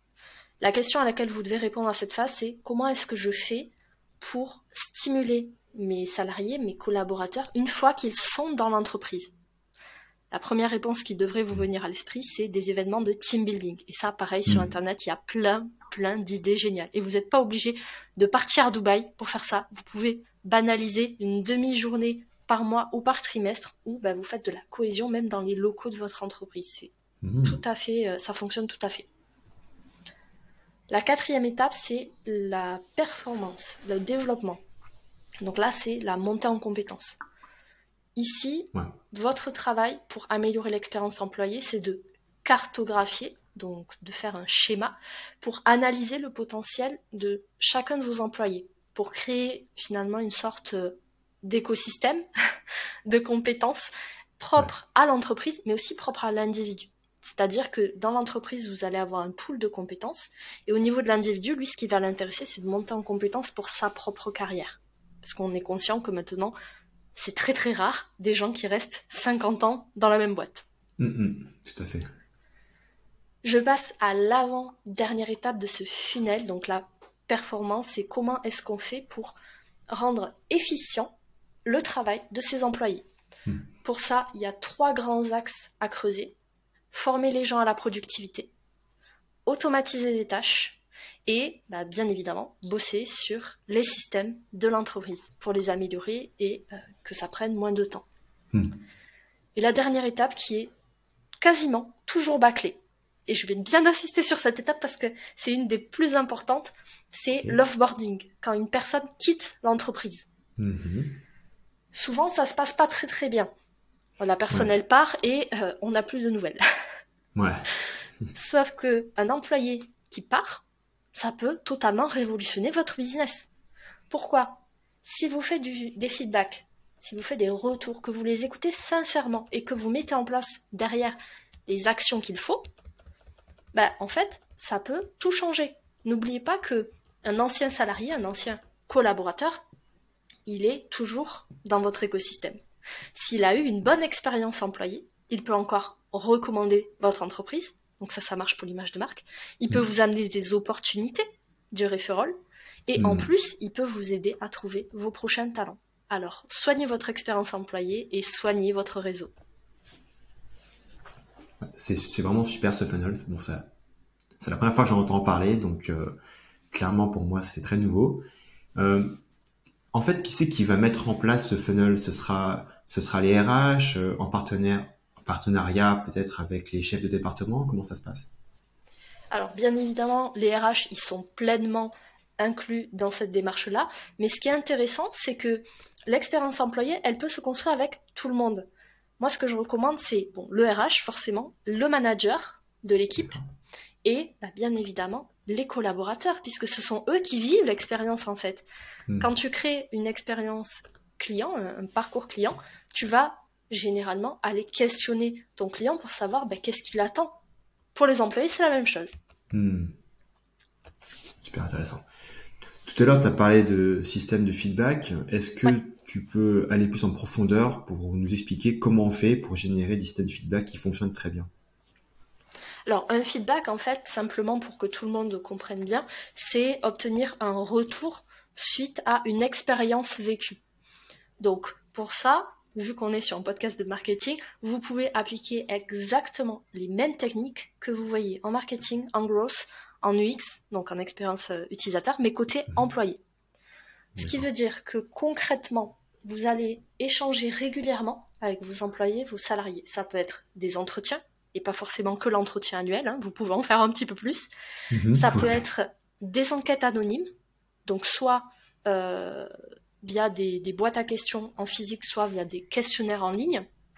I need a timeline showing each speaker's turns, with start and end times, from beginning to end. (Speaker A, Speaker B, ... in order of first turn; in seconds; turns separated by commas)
Speaker A: 0.6-9.3, Speaker A: 10.3-26.9, Speaker B: 27.2-27.6, Speaker A: 27.4-29.1, Speaker A: 30.9-34.6, Speaker A: 35.4-37.2, Speaker A: 38.1-52.2, Speaker A: 53.0-66.5, Speaker A: 67.1-70.6, Speaker B: 71.0-72.1, Speaker A: 73.4-79.4, Speaker A: 79.9-81.1, Speaker A: 81.6-83.0, Speaker A: 83.8-86.3, Speaker A: 86.9-88.5, Speaker A: 89.5-98.0, Speaker B: 98.5-98.8, Speaker A: 99.5-100.7, Speaker A: 101.4-110.2, Speaker B: 110.6-111.2, Speaker A: 111.9-113.5, Speaker A: 114.2-116.6, Speaker B: 117.3-117.7, Speaker A: 118.3-123.5, Speaker A: 124.1-132.6, Speaker A: 133.7-139.6, Speaker A: 140.4-142.6, Speaker A: 143.1-152.3, Speaker A: 152.9-159.3, Speaker B: 153.0-153.3, Speaker B: 161.7-163.7, Speaker B: 164.4-166.2, Speaker B: 166.7-169.2, Speaker B: 169.9-178.3, Speaker A: 179.3-188.7, Speaker A: 189.2-193.4, Speaker B: 193.2-193.4, Speaker A: 194.0-198.7, Speaker A: 199.2-207.4, Speaker A: 207.9-209.2, Speaker B: 209.5-209.9, Speaker B: 211.4-212.0, Speaker B: 212.8-221.5, Speaker A: 222.9-230.6, Speaker A: 231.4-243.2, Speaker A: 244.1-254.5, Speaker B: 244.2-244.4, Speaker B: 254.9-255.6, Speaker A: 255.1-257.3, Speaker A: 257.9-259.5, Speaker A: 260.0-263.6